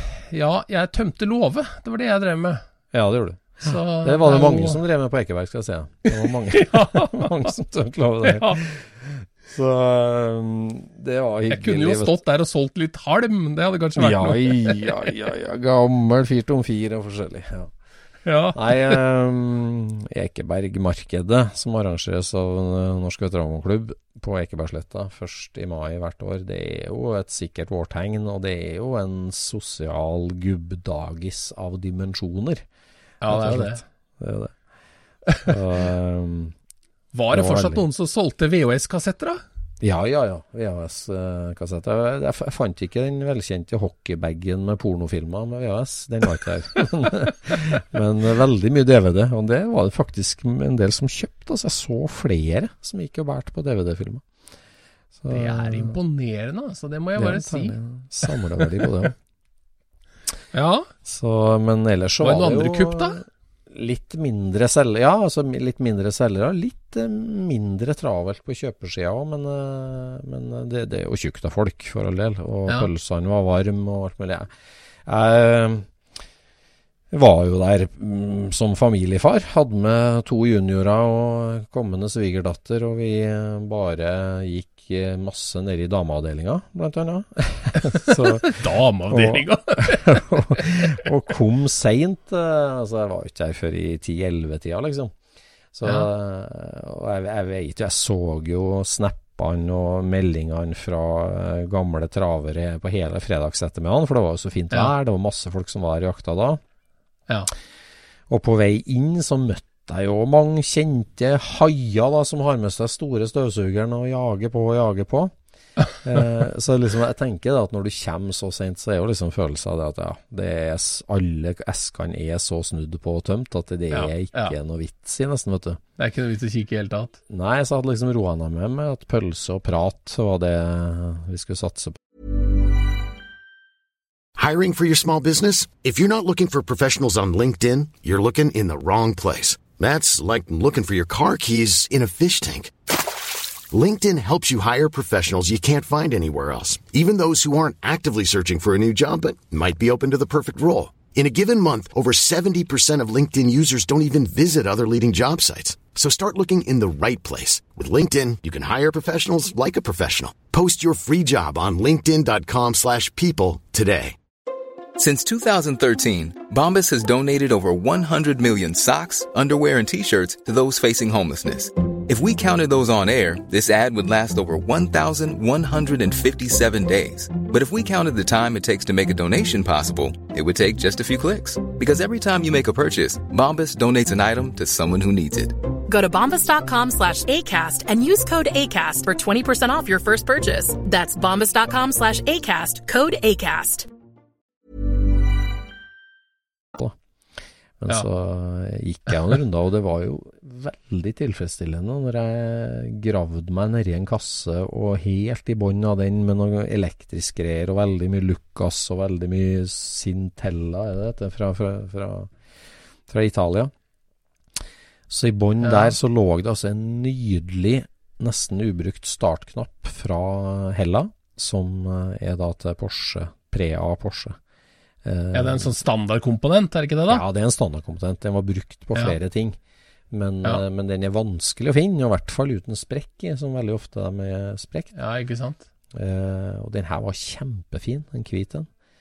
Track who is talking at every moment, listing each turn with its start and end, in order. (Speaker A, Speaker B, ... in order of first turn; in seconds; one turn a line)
Speaker A: 0.3-2.6
Speaker B: 2.9-12.2
Speaker A: 3.6-4.8
Speaker A: 6.5-7.3
Speaker A: 8.2-8.6
Speaker A: 11.5-14.8
Speaker B: 13.9-17.7
Speaker A: 18.2-19.0
Speaker B: 18.5-32.6
Speaker A: 33.2-33.8
Speaker B: 33.2-34.6
Speaker B: 35.4-36.5
Speaker A: 37.1-39.4
Speaker B: 37.3-37.8
Speaker B: 39.8-54.3
Speaker B: 55.1-56.0
Speaker A: 55.3-58.8
Speaker B: 57.1-59.1
Speaker A: 60.5-60.9
Speaker B: 61.0-74.5
Speaker A: 62.2-63.2
Speaker B: 75.1-75.9
Speaker B: 77.1-88.5
Speaker A: 87.8-90.8
Speaker B: 89.1-95.2
Speaker B: 95.7-106.6
Speaker B: 108.3-115.3
Speaker B: 116.0-125.8
Speaker A: 123.9-124.5
Speaker A: 126.0-127.2
Speaker B: 127.3-132.0
Speaker C: 134.4-142.7
Speaker C: 143.7-164.2
Speaker D: 165.0-185.6
Speaker E: 185.9-193.9
Speaker B: 197.8-212.3
Speaker B: 213.1-213.7
Speaker B: 215.1-224.4
Speaker A: 215.6-215.9
Speaker B: 225.0-225.8
Speaker A: 225.3-227.2
Speaker B: 227.1-229.6
Speaker B: 230.1-234.9
Speaker A: 234.9-235.6
Speaker B: 235.9-238.7